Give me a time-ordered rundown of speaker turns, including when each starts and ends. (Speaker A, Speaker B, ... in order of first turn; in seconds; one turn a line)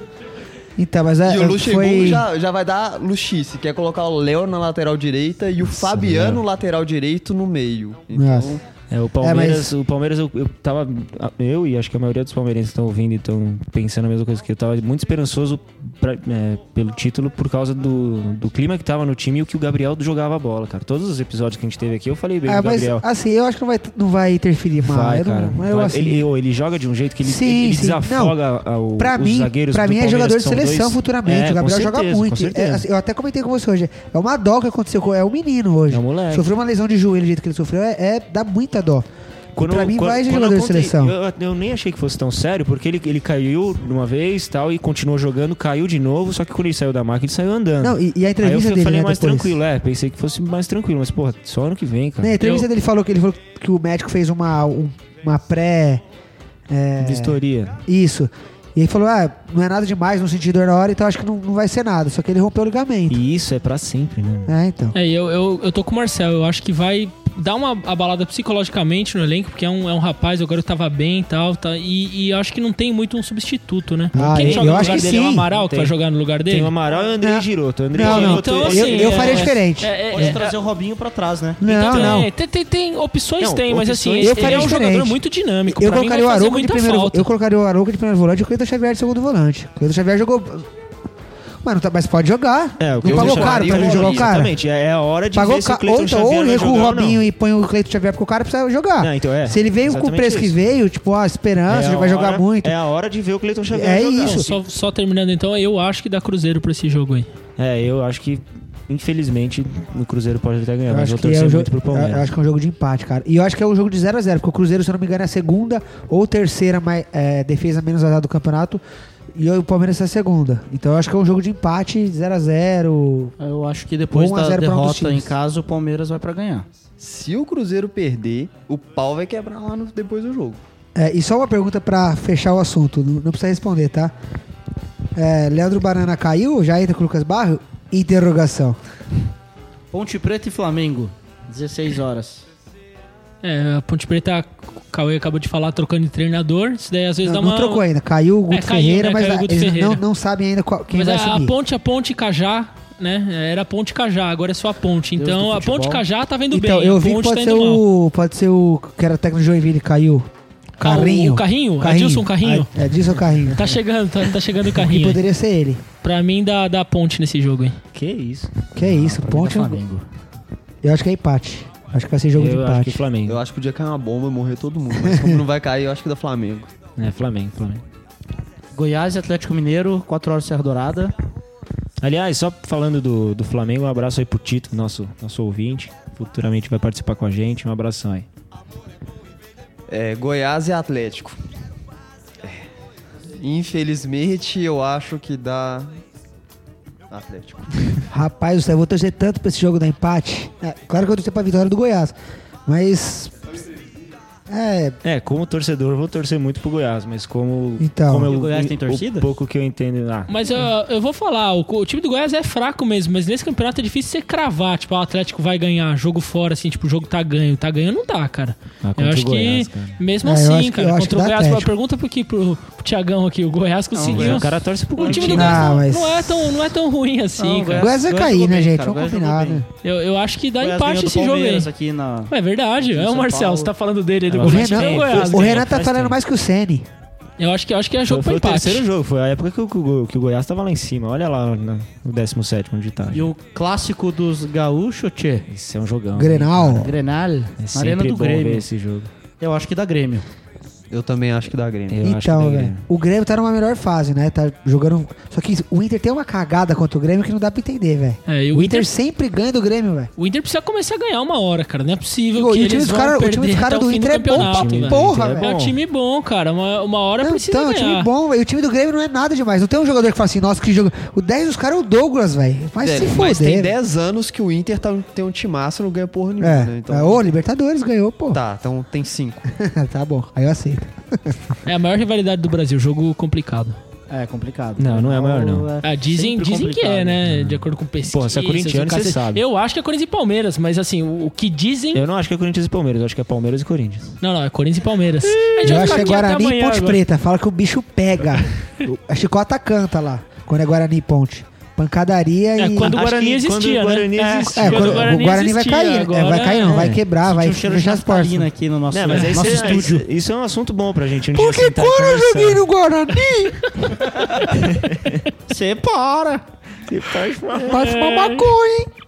Speaker A: 0.8-2.3
Speaker B: 1.3-8.6
Speaker C: 5.6-6.4
Speaker A: 8.1-8.6
Speaker C: 8.9-23.0
Speaker A: 9.2-9.7
Speaker A: 22.4-26.3
Speaker C: 24.8-32.9
Speaker A: 27.2-28.4
Speaker A: 29.0-41.1
Speaker C: 35.9-36.5
Speaker C: 39.6-52.4
Speaker A: 47.8-49.6
Speaker A: 52.2-56.0
Speaker D: 52.4-52.7
Speaker A: 56.7-63.2
Speaker C: 57.0-57.8
Speaker C: 63.1-64.5
Speaker A: 64.5-64.9
Speaker D: 64.9-76.7
Speaker A: 74.1-75.5
Speaker C: 74.1-75.9
Speaker C: 76.5-79.5
Speaker A: 77.2-79.9
Speaker D: 78.0-80.5
Speaker E: 80.1-81.6
Speaker A: 81.6-82.3
Speaker D: 81.6-87.3
Speaker C: 81.9-82.2
Speaker C: 83.4-84.9
Speaker A: 84.2-90.7
Speaker A: 91.6-94.6
Speaker C: 92.8-97.2
Speaker B: 93.0-94.3
Speaker A: 95.3-102.8
Speaker C: 99.0-100.6
Speaker C: 101.7-104.6
Speaker A: 103.7-104.5
Speaker D: 104.2-107.3
Speaker C: 107.6-112.3
Speaker A: 110.9-118.8
Speaker A: 119.3-123.3
Speaker E: 123.4-126.7
Speaker A: 124.1-125.3
Speaker B: 127.0-130.6
Speaker A: 130.9-134.1
Speaker A: 135.1-138.8
Speaker E: 139.9-142.4
Speaker D: 143.4-147.8
Speaker A: 147.2-151.6
Speaker D: 148.5-150.0
Speaker D: 150.9-157.8
Speaker E: 155.2-156.0
Speaker A: 156.5-163.7
Speaker D: 160.8-162.7
Speaker D: 163.5-165.2
Speaker A: 164.8-165.8
Speaker D: 166.0-167.8
Speaker C: 167.9-168.5
Speaker A: 168.8-169.8
Speaker E: 168.8-170.0
Speaker A: 170.8-173.0
Speaker C: 172.3-173.4
Speaker B: 173.2-176.7
Speaker A: 175.0-175.4
Speaker C: 177.0-177.8
Speaker E: 178.8-181.1
Speaker C: 182.0-188.2
Speaker B: 189.9-191.4
Speaker B: 193.3-196.0
Speaker B: 197.1-197.8
Speaker A: 198.1-202.2
Speaker A: 202.7-203.3
Speaker A: 204.5-205.0
Speaker C: 205.0-210.3
Speaker A: 207.8-208.3
Speaker E: 208.3-209.3
Speaker D: 210.3-227.9
Speaker C: 218.8-220.0
Speaker A: 220.2-221.7
Speaker E: 223.9-225.6
Speaker C: 224.1-225.8
Speaker A: 225.3-226.7
Speaker E: 227.4-229.6
Speaker A: 227.8-229.7
Speaker D: 229.8-231.7
Speaker E: 230.6-233.7
Speaker D: 232.3-235.7
Speaker C: 234.3-236.2
Speaker A: 234.4-236.9
Speaker D: 237.4-238.8
Speaker C: 238.1-243.3
Speaker E: 243.1-245.5
Speaker C: 245.5-246.9
Speaker A: 246.2-246.9
Speaker E: 246.7-248.7
Speaker C: 247.6-249.1
Speaker E: 249.4-250.2
Speaker B: 250.9-252.0
Speaker C: 251.9-252.8
Speaker A: 252.0-260.1
Speaker D: 258.3-258.9
Speaker D: 260.2-268.1
Speaker A: 262.4-265.5
Speaker C: 264.3-265.8
Speaker A: 267.2-273.8
Speaker B: 272.8-277.2
Speaker A: 276.4-278.4
Speaker B: 278.3-279.5
Speaker A: 279.5-281.4
Speaker D: 281.6-283.8
Speaker E: 284.1-287.2
Speaker C: 284.8-285.7
Speaker D: 285.8-292.0
Speaker C: 287.2-289.4
Speaker C: 291.9-294.1
Speaker D: 294.2-297.0
Speaker A: 295.6-303.0
Speaker C: 295.6-296.0
Speaker D: 302.6-306.8
Speaker C: 302.9-305.2
Speaker A: 304.6-308.5
Speaker C: 306.7-307.0
Speaker E: 307.2-310.0
Speaker C: 308.9-312.7
Speaker D: 309.1-309.7
Speaker A: 311.3-314.1
Speaker C: 314.6-315.2
Speaker E: 315.5-316.4
Speaker C: 316.9-317.9
Speaker A: 317.6-318.9
Speaker D: 317.7-318.5